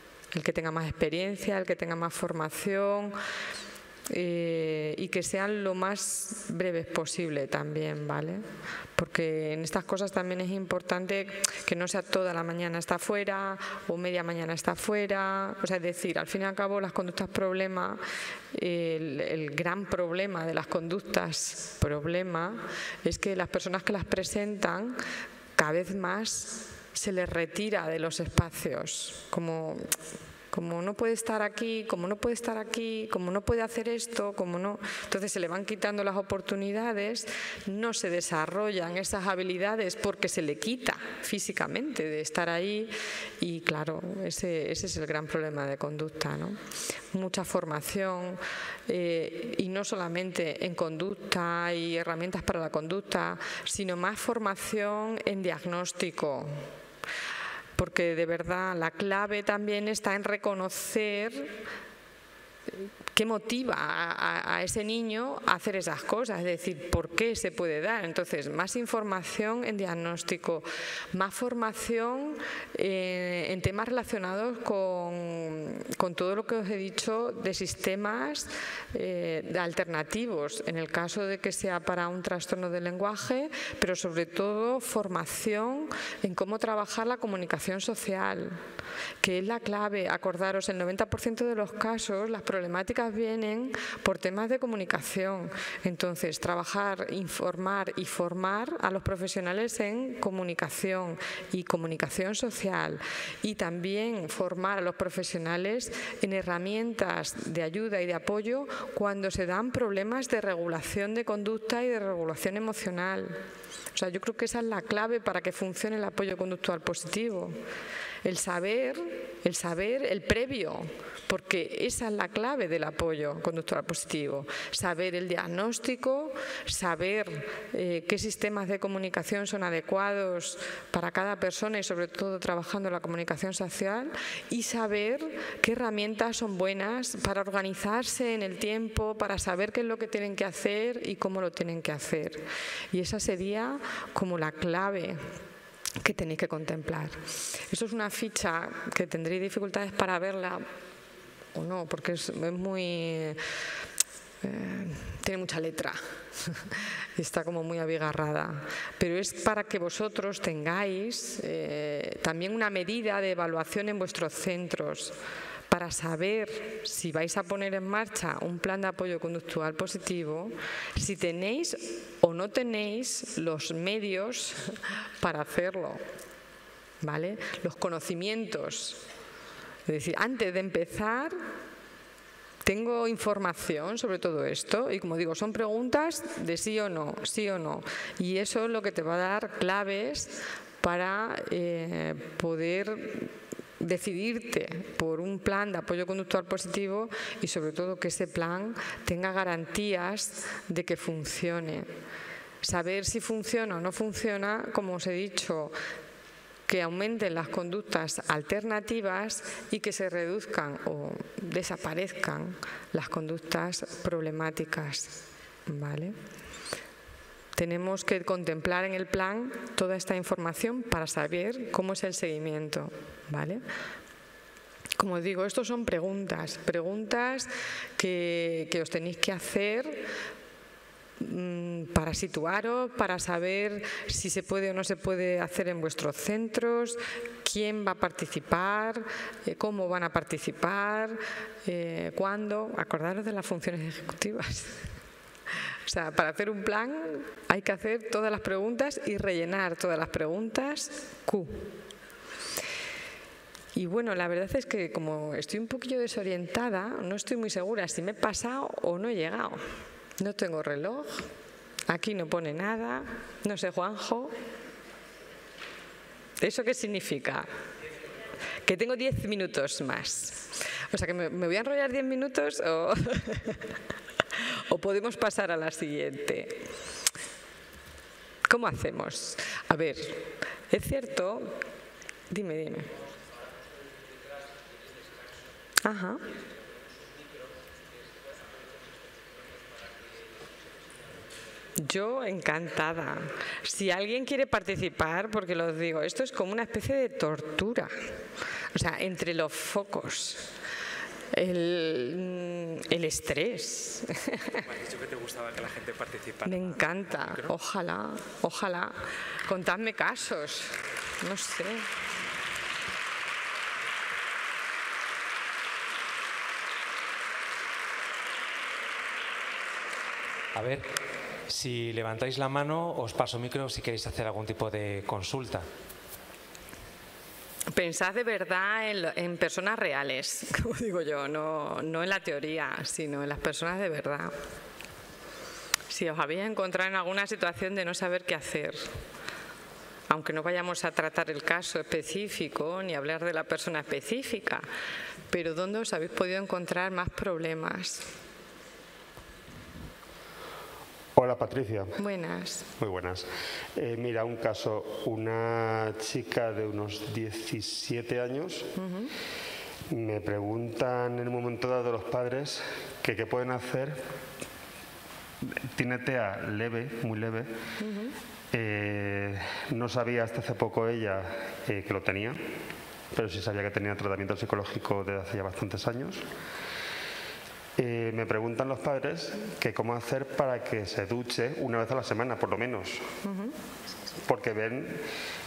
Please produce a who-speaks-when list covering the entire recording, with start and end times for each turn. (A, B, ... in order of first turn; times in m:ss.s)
0:00.3-0:03.2 A
0:04.1-0:08.4 A
0:09.0-0:18.0 A
0:18.5-0:25.0 A
0:25.6-0:29.9 A
0:30.5-0:46.6 A
0:47.1-0:56.6 A
0:57.8-1:01.6 A
1:03.1-1:28.6 A
1:29.2-1:53.4 A
1:53.9-1:57.6 A
1:58.2-2:25.2 A
2:26.0-2:27.2 A
2:27.7-2:30.6 A
2:31.5-2:33.4 A
2:34.4-2:45.1 A
2:45.7-2:56.0 A
2:57.0-2:59.0 A
2:59.9-3:01.4 A
3:02.6-3:21.9 A
3:22.6-3:25.7 A
3:26.7-3:36.2 A
3:37.6-3:43.6 A
3:45.0-3:50.0 A
3:51.2-4:04.8 A
4:05.9-4:11.7 A
4:13.7-4:19.6 A
4:20.2-4:21.3 A
4:21.9-4:24.3 A
4:26.4-4:27.5 A
4:28.6-4:33.6 A
4:34.4-4:36.6 A
4:38.5-4:41.6 A
4:42.3-4:42.9 A
4:45.8-4:46.2 A
4:51.8-4:57.9 A
4:58.7-5:00.5 A
5:01.3-5:04.6 A
5:04.6-5:06.8 B
5:06.4-5:11.9 A
5:20.5-5:20.8 B
5:21.5-5:25.6 B
5:27.7-5:34.3 A
5:35.9-5:38.9 A
5:40.1-5:44.7 A
5:45.3-5:48.0 A
5:51.1-5:52.0 C
5:52.0-5:52.7 A
5:52.8-5:58.7 C
5:58.8-5:59.1 A
5:59.9-6:04.0 C
6:05.4-6:07.5 C
6:07.8-6:08.1 A
6:08.5-6:12.4 C
6:13.1-6:16.2 C
6:17.8-6:23.0 C
6:23.2-6:23.5 A
6:24.2-6:25.0 C